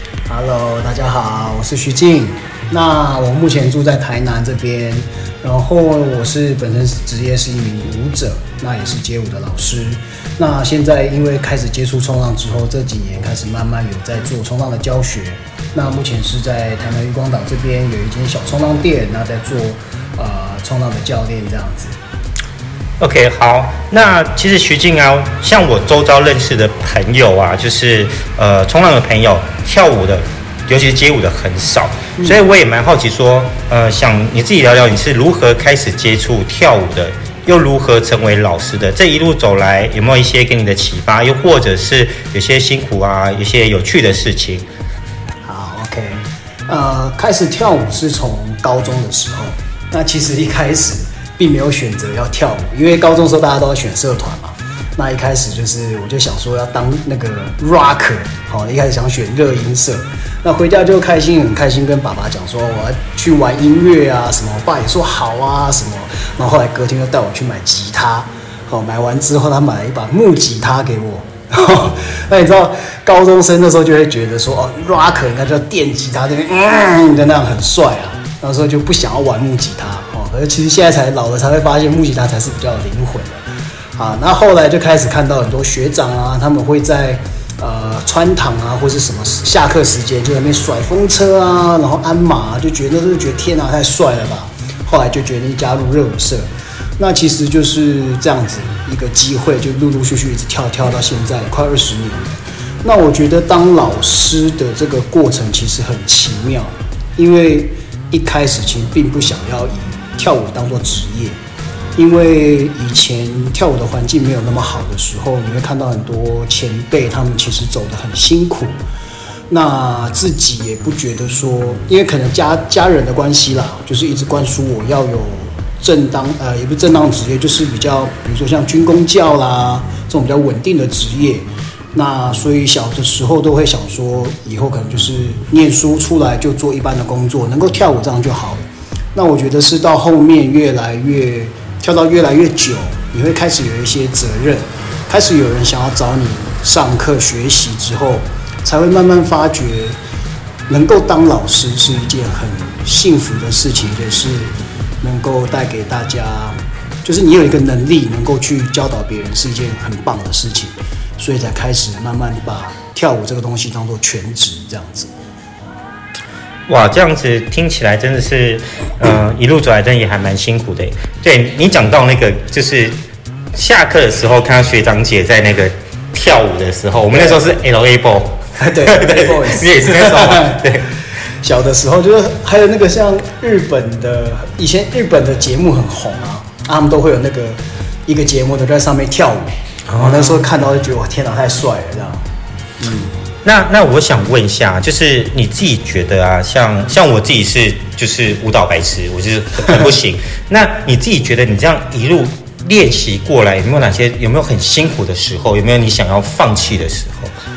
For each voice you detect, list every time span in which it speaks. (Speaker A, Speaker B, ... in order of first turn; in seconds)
Speaker A: 0.3-22.0, 32.2-32.4, 45.5-83.5, 84.0-111.4, 112.0-118.8, 119.5-150.0, 150.7-165.1, 177.1-177.6, 178.6-180.7, 181.4-192.2, 192.8-193.2
Speaker B: 23.0-44.7, 166.7-173.0, 173.5-180.9, 189.9-190.5, 193.4-207.3